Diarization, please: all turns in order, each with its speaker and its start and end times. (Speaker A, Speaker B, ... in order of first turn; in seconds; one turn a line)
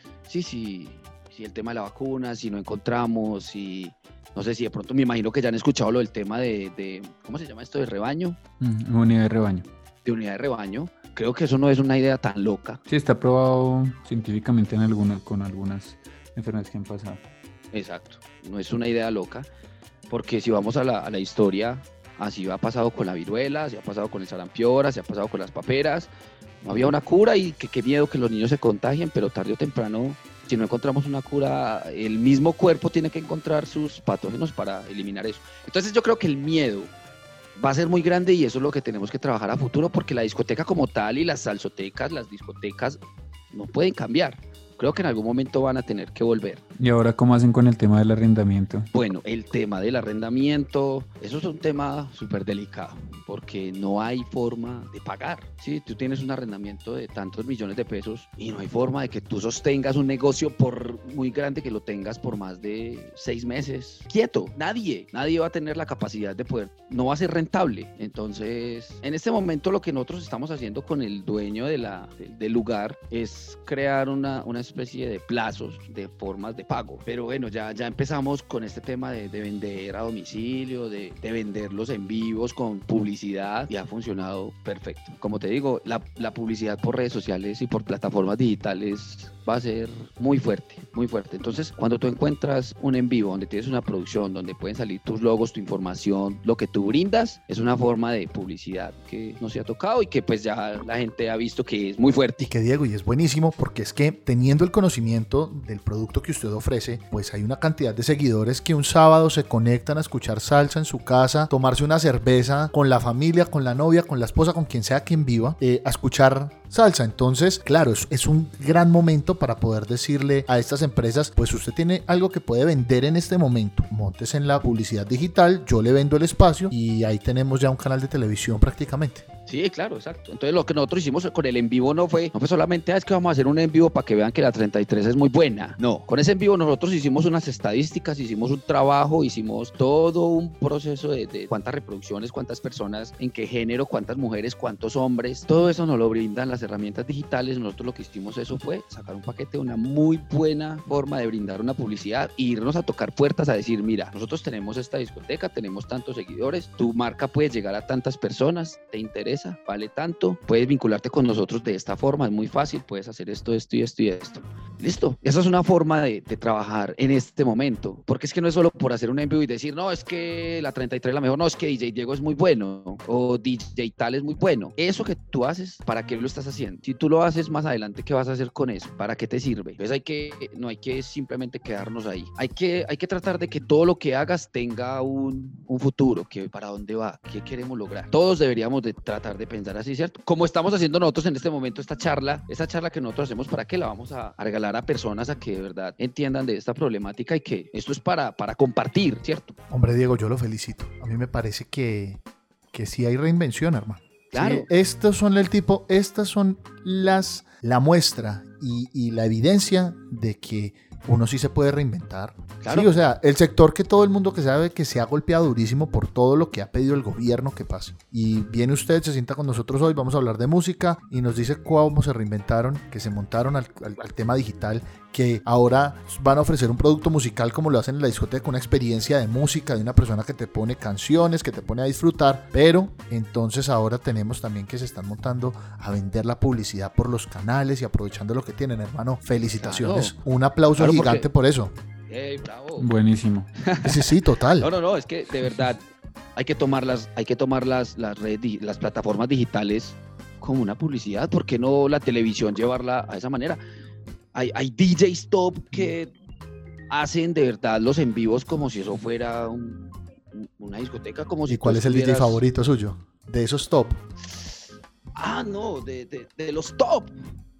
Speaker A: 0.3-8.4
Speaker B: 8.6-9.7
Speaker A: 10.1-12.8
Speaker B: 12.9-17.2
Speaker A: 17.7-19.5
Speaker A: 20.1-26.1
Speaker A: 26.6-36.9
Speaker A: 37.6-43.0
Speaker A: 43.5-46.6
Speaker B: 46.8-48.9
Speaker A: 48.9-102.5
Speaker C: 102.4-129.2
Speaker A: 129.5-199.5
Speaker C: 199.7-202.2
Speaker C: 202.7-241.7
Speaker A: 204.3-204.7
Speaker A: 212.6-212.9
Speaker A: 239.6-240.2
Speaker A: 240.8-241.3
Speaker A: 242.1-242.9
Speaker B: 242.8-243.5
Speaker A: 243.6-245.8
Speaker C: 243.8-244.7
Speaker A: 246.4-253.6
Speaker A: 254.3-256.1
Speaker A: 256.9-262.4
Speaker C: 261.5-264.0
Speaker A: 265.2-267.1